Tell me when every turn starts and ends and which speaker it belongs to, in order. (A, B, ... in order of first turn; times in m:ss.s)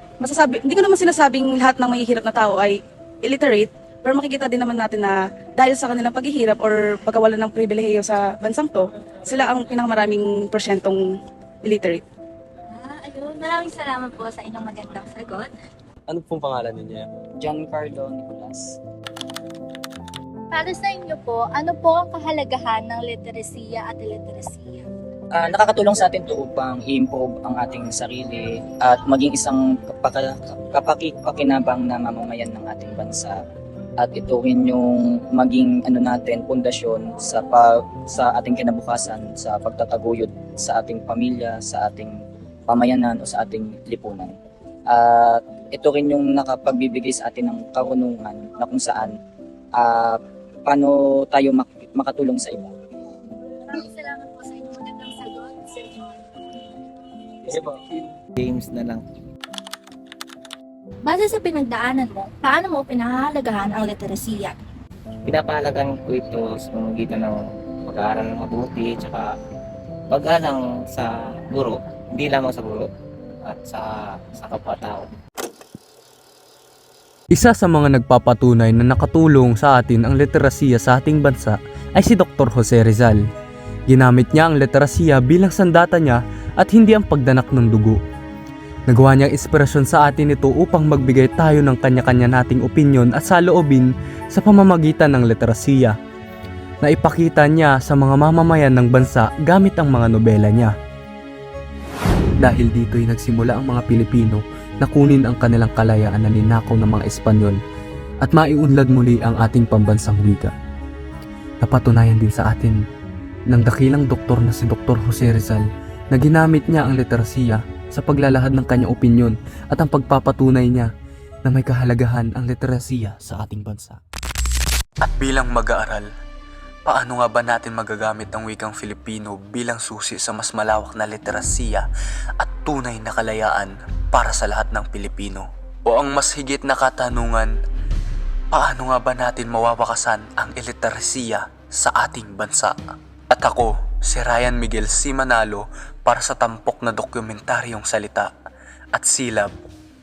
0:00.2-0:11.0 A
0:11.6-0:12.0 A
0:12.8-0:15.5 B
0:16.1-0:17.1 C
0:17.4-0:18.8 D
0:20.5-0:24.9 B
0:25.3-0:33.4 D
0:34.0-0:42.1 D
0:42.7-0:44.3 D
0:44.9-0:49.1 D
0:49.8-0:52.7 D
0:53.7-0:56.4 B
0:57.4-0:57.9 E
0:58.4-0:59.0 E
1:01.0-1:04.5 B
1:05.2-1:09.3 E
1:10.1-1:12.8 E
1:13.4-1:15.1 E
1:17.3-1:23.2 C
1:23.9-1:28.0 C
1:28.9-1:36.0 C
1:36.8-1:40.7 C
1:42.4-1:47.6 C
1:48.2-1:50.5 C
1:51.6-1:52.8 C
1:53.5-2:00.9 C
2:01.4-2:04.0 C
2:05.0-2:06.1 C
2:06.8-2:11.9 C
2:12.4-2:17.5 C
2:18.5-2:22.8 C
2:23.3-2:28.3 C
2:28.9-2:29.6 C